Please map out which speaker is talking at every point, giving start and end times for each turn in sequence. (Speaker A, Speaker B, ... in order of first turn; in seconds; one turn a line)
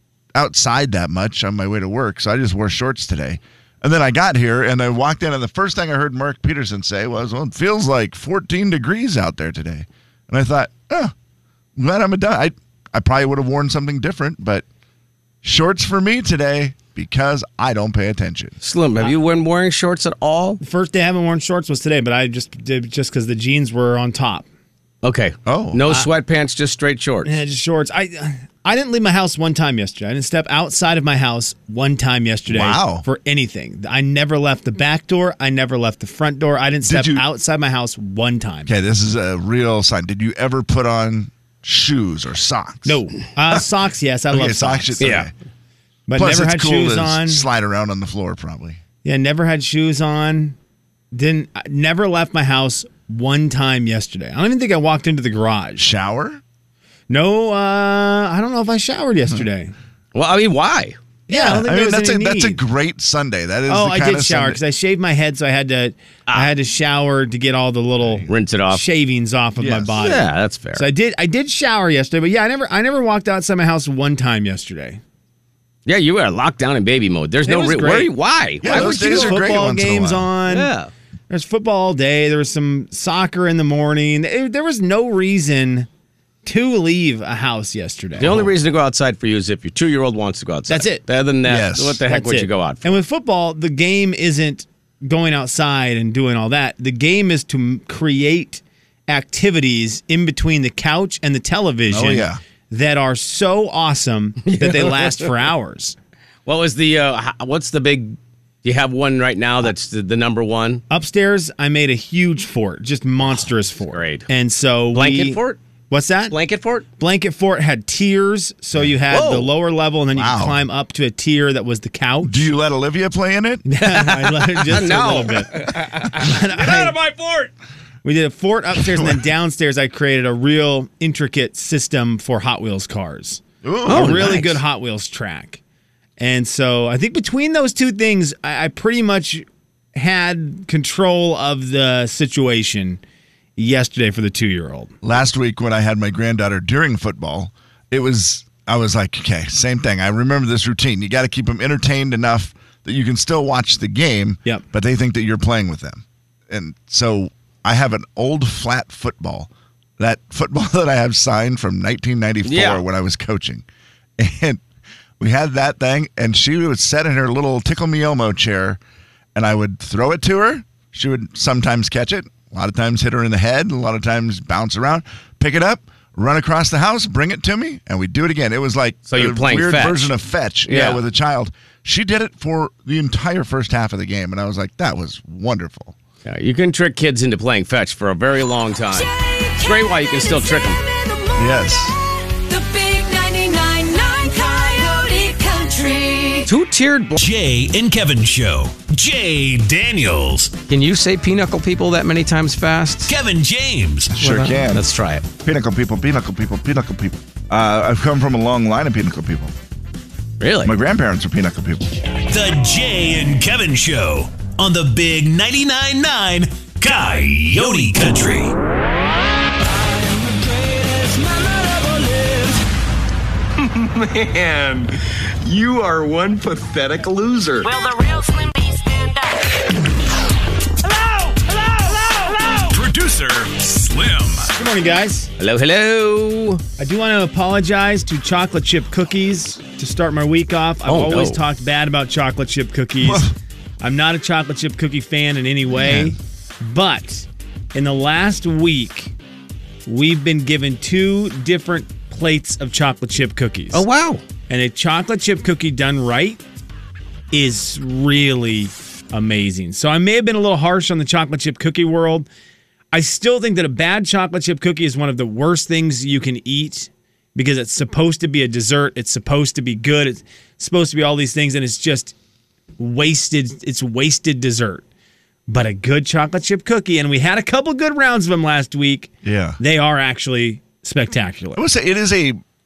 Speaker A: 0.3-11.1
Speaker A: 11.8-14.6
Speaker A: 15.4-18.5
Speaker B: 18.6-20.6
Speaker C: 20.6-24.4
Speaker B: 25.0-27.3
Speaker A: 25.4-25.9
Speaker C: 27.2-38.7
Speaker A: 32.5-33.0
Speaker A: 36.9-37.2
Speaker A: 38.7-43.0
Speaker C: 42.8-45.1
Speaker A: 44.3-45.3
Speaker B: 45.0-45.3
Speaker C: 46.1-47.5
Speaker A: 46.1-48.8
Speaker C: 49.0-50.6
Speaker C: 51.1-55.9
Speaker A: 55.8-56.4
Speaker C: 57.1-59.7
Speaker B: 60.1-61.0
Speaker C: 61.3-62.6
Speaker A: 61.3-64.6
Speaker C: 63.7-75.0
Speaker A: 68.0-68.3
Speaker B: 68.3-68.8
Speaker A: 69.6-70.0
Speaker B: 70.0-70.9
Speaker B: 75.8-79.4
Speaker C: 77.4-78.1
Speaker A: 78.6-80.3
Speaker C: 78.6-80.7
Speaker B: 80.5-80.9
Speaker C: 81.3-85.9
Speaker C: 86.4-88.5
Speaker B: 88.2-93.0
Speaker C: 90.7-91.0
Speaker A: 91.5-92.0
Speaker C: 92.1-106.0
Speaker A: 101.9-102.4
Speaker B: 104.5-105.3
Speaker B: 106.5-110.8
Speaker C: 110.9-115.4
Speaker B: 113.8-114.2
Speaker B: 114.9-115.6
Speaker C: 115.9-116.3
Speaker B: 116.3-116.8
Speaker C: 117.0-122.5
Speaker B: 119.1-119.5
Speaker A: 120.1-120.6
Speaker A: 122.2-123.6
Speaker C: 123.7-127.0
Speaker B: 123.8-127.5
Speaker C: 128.0-135.6
Speaker A: 128.8-129.2
Speaker A: 133.6-134.3
Speaker B: 133.9-134.6
Speaker C: 136.2-143.0
Speaker C: 143.6-144.9
Speaker A: 145.0-163.6
Speaker B: 162.4-162.8
Speaker A: 164.2-164.6
Speaker A: 165.2-168.8
Speaker A: 169.3-185.9
Speaker B: 179.1-180.1
Speaker B: 180.7-181.0
Speaker B: 186.2-190.8
Speaker D: 188.9-196.5
Speaker A: 191.3-191.9
Speaker B: 196.4-197.2
Speaker E: 197.2-200.5
Speaker B: 200.7-203.1
Speaker E: 203.1-204.1
Speaker A: 204.1-204.8
Speaker B: 204.2-205.2
Speaker A: 205.4-209.5
Speaker B: 210.4-210.7
Speaker A: 210.6-211.9
Speaker E: 212.3-218.5
Speaker F: 225.5-227.6
Speaker D: 227.6-229.3
Speaker D: 231.2-232.6
Speaker E: 232.7-234.5
Speaker C: 234.5-235.3
Speaker B: 235.4-236.6
Speaker C: 236.8-243.3
Speaker B: 240.8-241.4
Speaker A: 243.0-243.3
Speaker C: 243.8-249.1
Speaker A: 245.7-246.1
Speaker C: 249.8-253.8
Speaker B: 253.7-254.2
Speaker C: 254.5-256.4
Speaker C: 257.3-262.2
Speaker C: 262.9-272.1
Speaker C: 272.8-274.8
Speaker C: 275.5-281.6
Speaker A: 279.2-279.6
Speaker A: 281.6-282.4